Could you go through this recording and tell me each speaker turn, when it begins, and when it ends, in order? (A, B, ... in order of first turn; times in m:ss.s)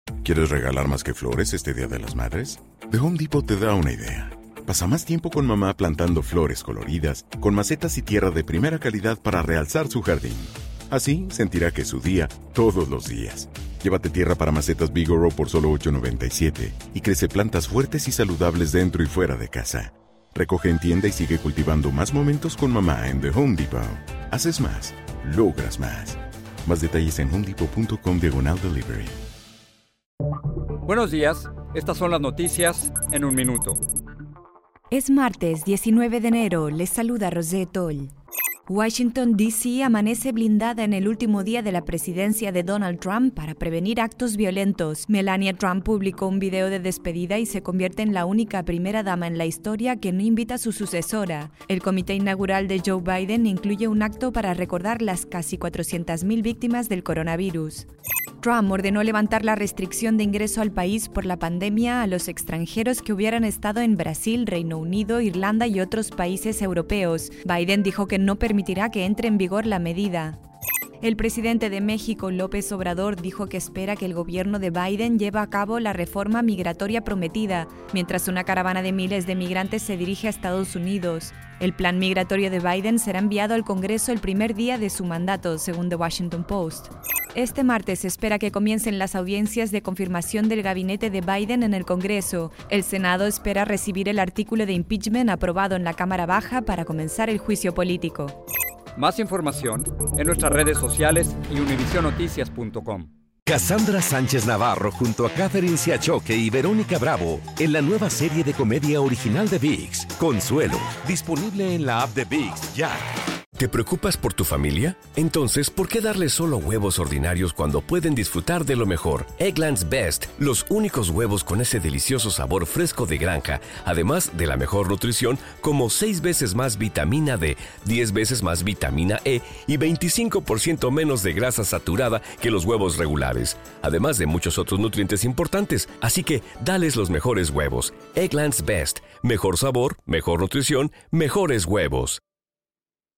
0:00.2-0:29.1 A
0:30.8-0:33.8 B
0:34.9-0:38.1 C
0:38.7-0:57.9 C
0:58.4-1:10.4 C
1:11.0-1:38.4 C
1:39.0-1:43.1 B
1:43.4-1:53.0 D
1:53.6-2:22.2 E